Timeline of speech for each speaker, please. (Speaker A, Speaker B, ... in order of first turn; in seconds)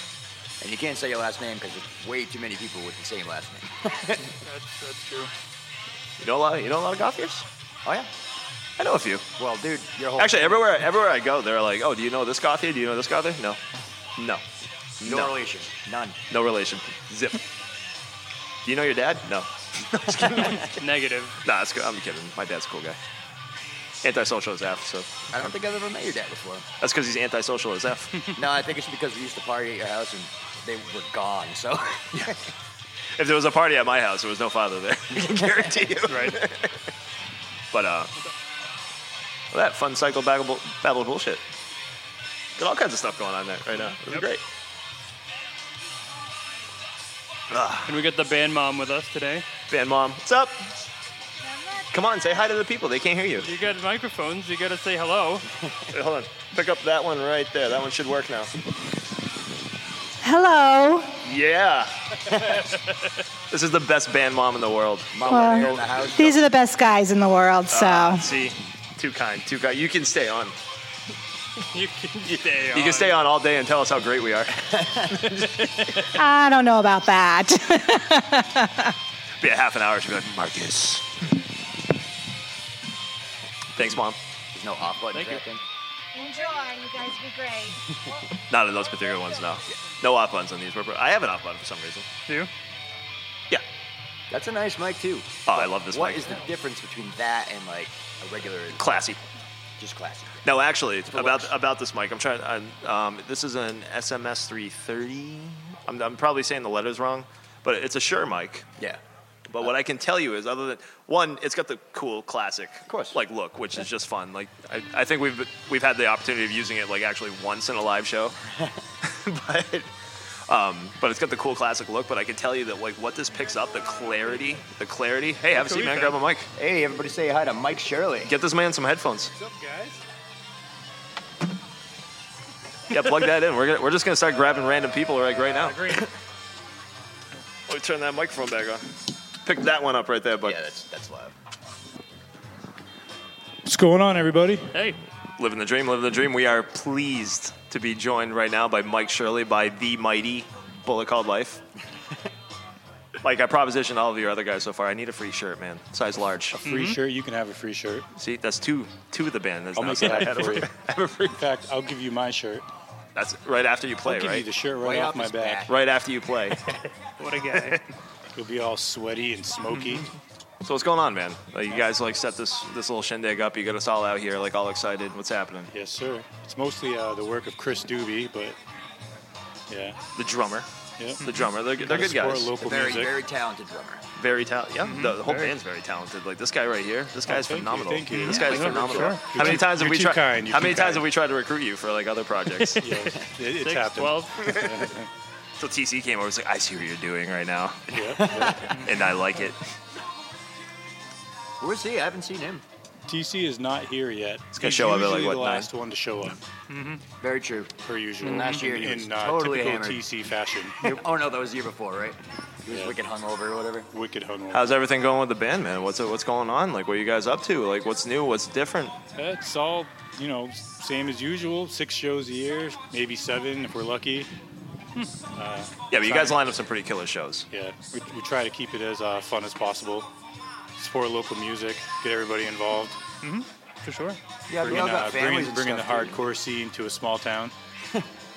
Speaker A: 0.6-4.3, 7.8-8.1, 9.4-10.6, 15.0-16.2, 25.3-26.7, 28.4-32.4, 35.1-36.1, 65.1-66.4, 74.8-75.1, 84.5-85.6, 94.3-99.1, 99.8-100.5, 101.1-101.5, 112.9-113.2, 126.6-128.3, 140.4-141.3, 164.8-165.8, 182.6-184.0, 198.1-198.7, 201.6-202.6, 207.2-210.1, 210.8-213.9, 234.5-236.2
Speaker B: 4.4-5.3, 20.3-21.4, 36.1-36.4, 43.9-44.3, 47.9-49.5, 53.4-55.5, 71.7-73.2, 85.2-85.4, 125.5-126.2, 144.7-145.0, 156.6-157.0, 167.2-167.8, 169.7-170.0, 184.8-185.6, 188.1-189.6, 193.5-194.5, 206.7-207.0, 208.2-208.6, 233.2-234.2
Speaker C: 6.2-7.5, 8.8-9.2, 10.2-13.6, 14.2-14.4, 15.0-15.3, 16.3-17.4, 18.6-20.6, 21.4-23.0, 24.0-25.3, 26.8-28.1, 33.2-36.6, 37.7-38.1, 39.5-41.4, 42.6-44.4, 47.5-48.0, 49.7-50.6, 51.9-53.5, 55.9-58.5, 61.2-61.9, 63.5-65.8, 67.7-70.5, 72.7-74.7, 79.4-81.1, 83.8-84.2, 88.5-92.1, 95.5-96.3, 98.8-99.2, 100.4-108.7, 109.5-118.3, 119.0-119.9, 120.5-126.5, 128.2-129.3, 132.9-135.9, 137.7-138.9, 139.4-140.6, 145.4-151.6, 153.2-156.6, 158.2-161.3, 163.2-164.5, 165.7-166.6, 167.5-167.8, 170.7-175.7, 180.2-180.7, 181.2-182.5, 184.2-192.8, 195.6-197.8, 198.8-199.6, 204.5-205.7, 214.5-218.9, 225.9-227.4
Speaker D: 60.2-61.2, 65.3-68.3, 76.2-78.9, 86.1-87.9
Speaker E: 129.4-130.0, 143.7-144.7, 156.6-158.1, 159.8-162.7, 164.0-165.7, 168.3-170.1, 175.7-178.6, 179.7-180.0, 181.0-183.1, 187.3-191.1, 192.8-195.1, 197.9-198.6, 203.1-206.4, 207.9-211.0, 212.7-213.0, 213.9-214.8, 219.2-224.3, 225.3-226.4, 227.5-230.1, 230.8-233.0, 234.6-237.5